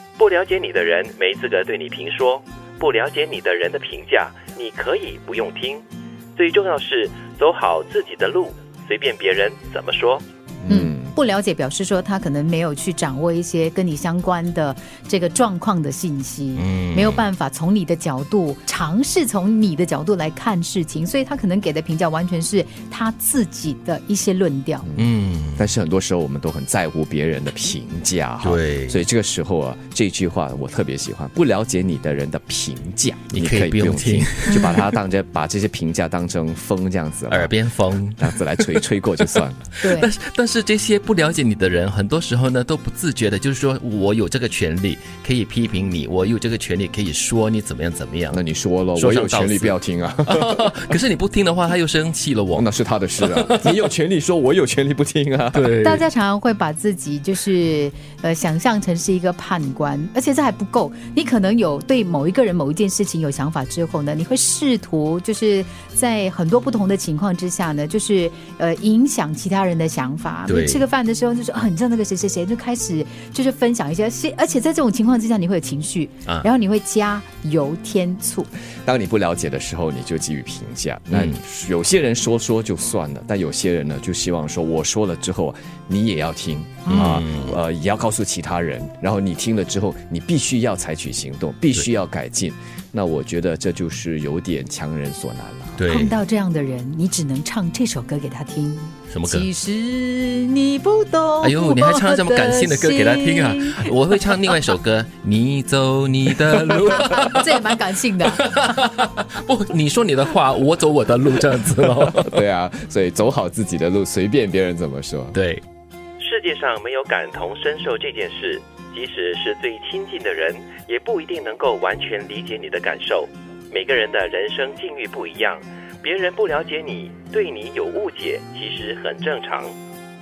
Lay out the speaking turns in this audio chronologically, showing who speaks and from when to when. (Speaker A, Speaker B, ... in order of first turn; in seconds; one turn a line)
Speaker A: 0.2-5.8
Speaker A: 6.4-10.2
Speaker B: 10.6-11.1
Speaker C: 10.7-24.9
Speaker D: 16.6-17.3
Speaker B: 24.8-37.6
Speaker D: 25.0-25.7
Speaker D: 28.4-29.1
Speaker D: 33.3-34.9
Speaker C: 34.5-34.8
Speaker D: 37.3-48.4
Speaker B: 38.2-39.7
Speaker C: 39.8-40.1
Speaker B: 48.3-50.8
Speaker D: 49.0-52.7
Speaker B: 52.5-55.7
Speaker D: 53.2-53.8
Speaker D: 55.5-56.0
Speaker C: 55.8-78.5
Speaker D: 70.5-70.8
Speaker B: 78.8-95.8
Speaker D: 81.1-81.4
Speaker C: 86.9-87.2
Speaker D: 86.9-87.6
Speaker D: 95.8-96.2
Speaker C: 95.9-104.3
Speaker D: 99.1-99.5
Speaker D: 101.4-107.7
Speaker C: 106.8-108.5
Speaker D: 108.3-112.4
Speaker B: 112.1-115.4
Speaker D: 115.3-115.6
Speaker A: 116.2-129.7